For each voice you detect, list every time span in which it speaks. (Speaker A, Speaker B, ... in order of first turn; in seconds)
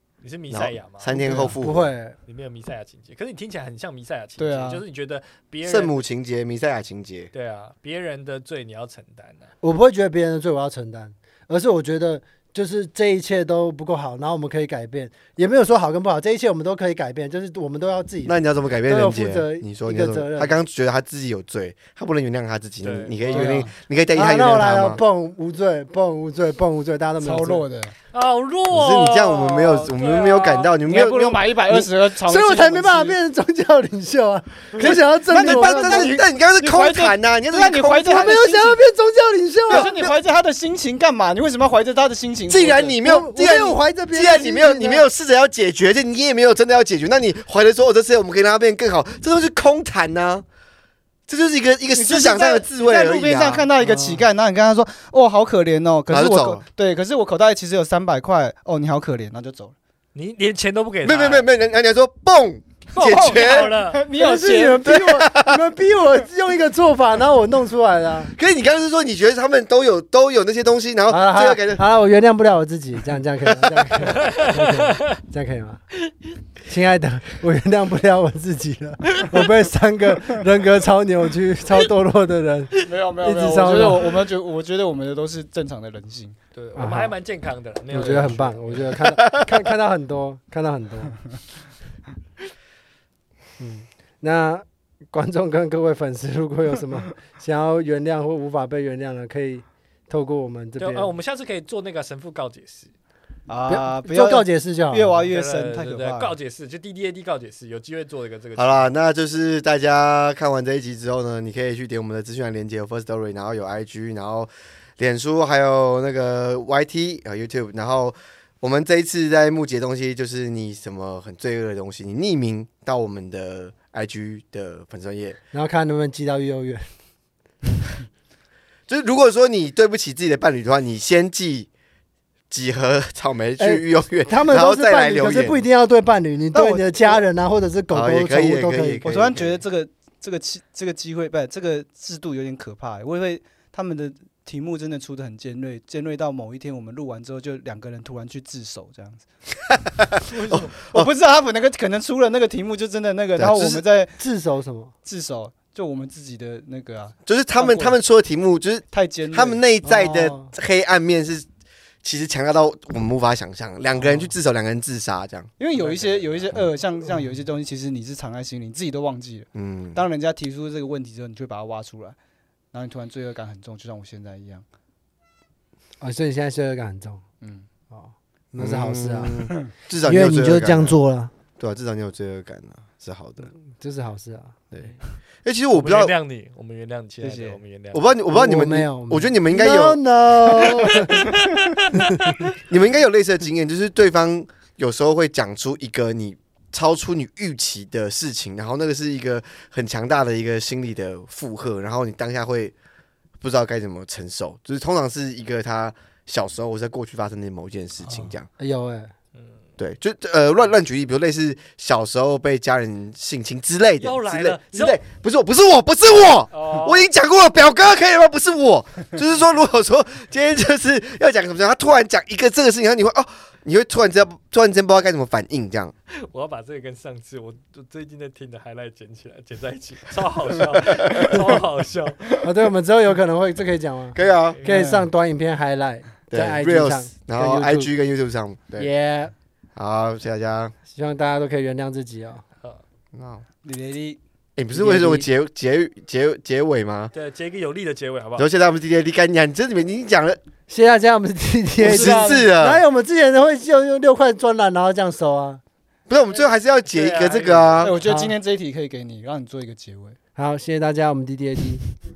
Speaker A: 0.2-1.1, 2.3-6.0, 7.3-9.5, 22.8-23.7, 28.1-30.7, 60.1-61.5, 63.0-64.0, 74.1-75.2, 86.5-89.0, 100.8-102.9, 105.3-108.9, 185.7-188.1, 191.0-192.4, 214.0-215.0, 216.5-217.1, 226.1-232.2, 234.5-234.9, 247.1-248.5, 256.9-258.1
Speaker B: 0.5-1.9, 5.6-7.3, 18.2-25.0, 28.7-31.9, 34.8-38.4, 39.7-40.1, 42.5-50.4, 51.3-53.7, 56.1-56.6, 61.0-63.7, 64.8-65.6, 68.3-71.8, 73.5-73.9, 89.2-89.7, 108.5-125.4, 128.9-131.7, 132.5-135.6, 137.9-139.6, 149.7-151.1, 153.3-153.8, 157.2-161.4, 162.0-166.6, 169.5-170.0, 178.5-181.0, 181.6-183.5, 184.7-186.1, 187.9-190.0, 190.5-190.9, 192.5-202.7, 203.4-208.5, 209.8-225.9, 230.8-231.4, 234.1-234.6, 236.3-238.9, 239.8-240.7, 243.1-243.4, 244.6-247.1, 248.4-250.4, 251.8-252.8, 256.1-258.0
Speaker C: 1.2-1.6, 4.4-4.8, 23.3-23.7, 27.2-27.9, 30.8-33.2, 34.8-38.8, 39.7-43.0, 51.9-59.7, 62.9-64.9, 82.8-86.4, 103.5-106.3, 136.5-137.2, 139.0-149.2, 150.3-154.1, 155.0-158.0, 158.9-159.6, 164.0-164.3, 165.6-172.2, 172.7-174.6, 177.4-177.7, 187.2-187.6, 231.2-231.6, 234.7-235.1, 243.6-244.2, 251.8-252.5, 257.8-260.2
Speaker D: 1.2-2.2, 9.6-20.6, 24.1-27.6, 32.2-36.1, 38.1-39.9, 43.0-45.0, 53.8-54.2, 64.1-68.3, 71.1-75.8, 76.7-84.2, 86.8-87.1, 87.9-91.2, 93.6-101.1, 103.7-105.3, 125.5-126.8, 133.6-139.0, 154.2-154.9, 159.8-160.5, 176.0-177.2, 177.9-181.3, 183.5-184.6, 188.3-191.3, 208.6-209.1, 232.4-237.9, 238.8-239.3, 240.9-242.4, 244.7-245.3, 250.7-255.6, 258.0-258.3, 260.4-261.8